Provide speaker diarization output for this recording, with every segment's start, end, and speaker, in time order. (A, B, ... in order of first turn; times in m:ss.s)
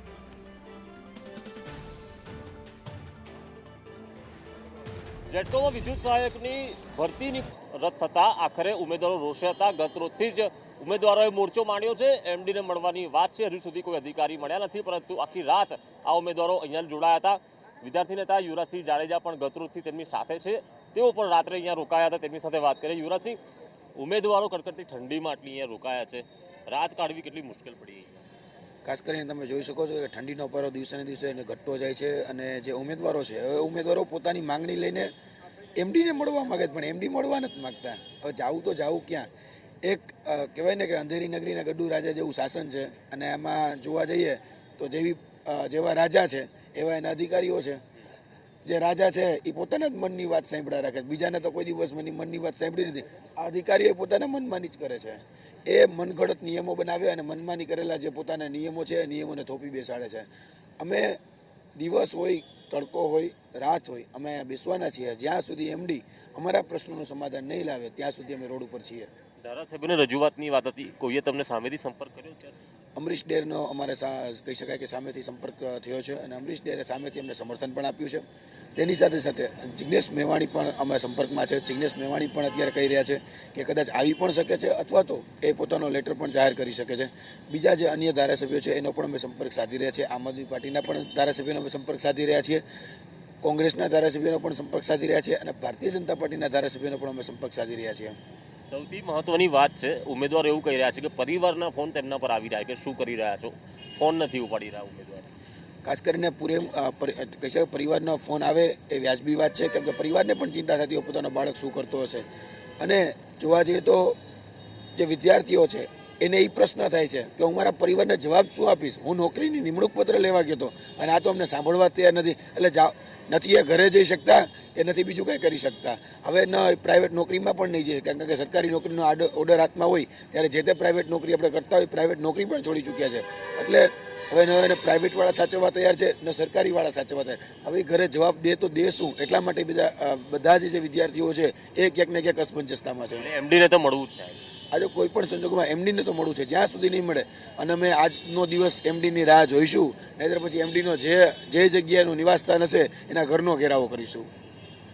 0:05.3-0:23.4 A
0:24.0-0:28.2 A
0:28.8-0:35.1 B
0:35.8-0:39.3 B
0:39.8-0:47.8 B
0:48.6-1:00.3 B
1:00.8-1:01.2 B
1:01.8-1:09.1 B
1:09.4-1:12.5 A
1:13.0-1:18.2 B
1:18.8-1:32.6 B
1:33.4-1:38.2 B
1:38.7-1:45.3 A
1:45.8-1:52.3 B
1:52.8-1:54.2 B
1:55.0-2:23.3 B
2:23.2-2:24.4 A
2:24.7-2:34.3 B